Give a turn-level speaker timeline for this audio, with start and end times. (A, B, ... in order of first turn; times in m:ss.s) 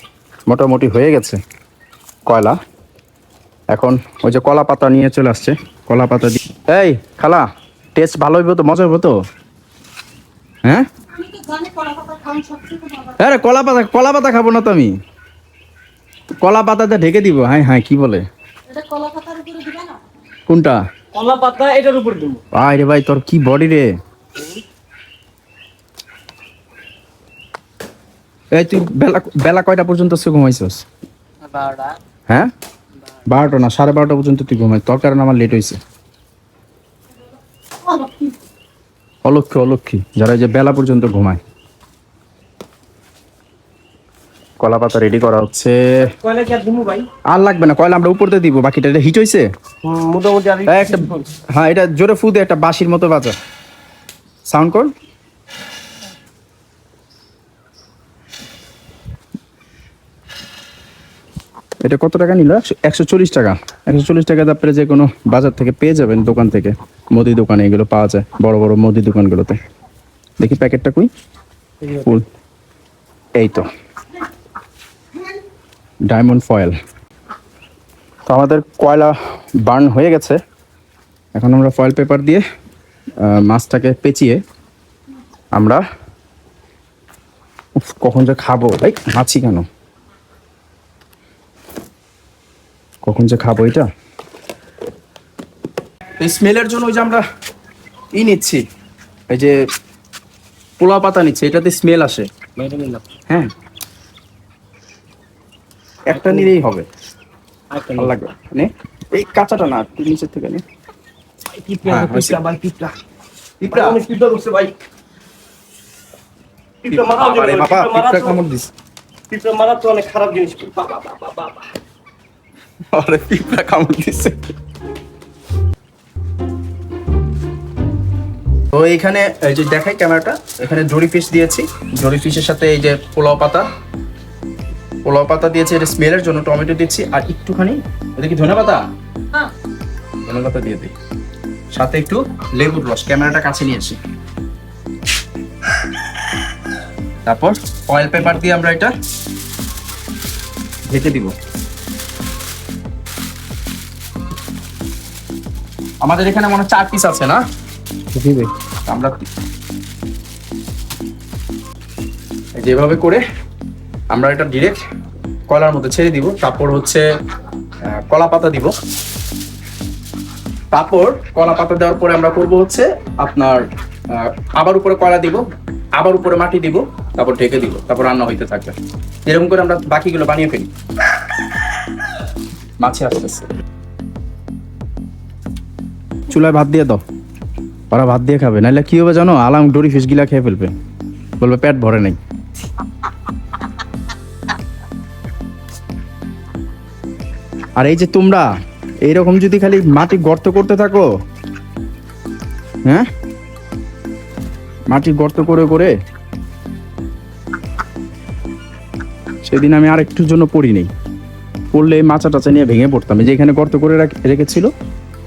0:00.5-0:01.4 A
0:02.2-0:02.6 A
0:03.7-0:09.2 A
0:11.2-0:13.0 B
0:13.1-0:14.9 A
0:16.4-0:18.2 A
0:18.7-0:20.0 B
0:20.5-0:20.8 A
0:21.1-0:22.4 C
0:22.5-0:23.9 A
0:28.5-0:30.8 A
0:31.5-0:32.0 C
0:33.2-0:35.8 A
0:39.2-0:41.4 A
0:44.6-0:46.1 A
0:46.0-0:47.1 C
0:47.3-0:49.5 A
0:49.8-0:51.3 C
0:50.7-0:53.4 A
0:54.5-0:54.9 A
1:01.8-1:09.6 A
1:10.4-1:11.1 A
1:11.8-1:12.1 C
1:11.9-1:12.3 A
1:13.4-1:13.7 A
1:16.1-1:16.8 A
1:18.3-1:20.4 A
1:21.4-1:22.4 A
1:23.2-1:24.4 A
1:25.5-1:25.8 A
1:27.8-1:29.7 A
1:33.0-1:33.9 A
1:36.2-1:37.2 A
1:38.2-1:38.6 A
1:39.3-1:39.6 A
1:40.8-1:42.3 A
1:42.6-1:43.0 C
1:46.1-1:46.9 A
1:46.1-1:46.5 C
1:47.7-1:48.1 C
1:47.9-1:50.6 A
1:51.5-1:53.0 C
1:51.8-1:52.4 A
1:53.6-1:54.0 A
1:53.7-1:54.8 C
1:56.8-1:58.4 C
1:56.9-1:58.7 A
1:59.3-2:01.7 C
2:02.9-2:04.4 A
2:08.7-2:13.7 A
2:15.0-2:18.8 A
2:20.2-2:20.9 A
2:21.7-2:24.0 A
2:27.2-2:28.9 A
2:30.9-2:31.3 A
2:36.0-2:37.4 A
2:38.2-2:38.5 C
2:38.9-2:39.3 A
2:42.6-2:43.2 A
2:44.1-2:44.8 A
2:45.5-2:47.1 A
2:47.9-2:48.7 A
2:50.7-2:55.4 A
2:56.0-2:58.7 A
2:59.3-3:00.7 A
3:02.8-3:03.5 A
3:06.3-3:07.0 A
3:07.9-3:10.7 A
3:11.4-3:12.2 A
3:17.8-3:18.5 A
3:19.0-3:21.1 A
3:24.9-3:25.9 A
3:29.4-3:30.9 A
3:31.7-3:34.7 A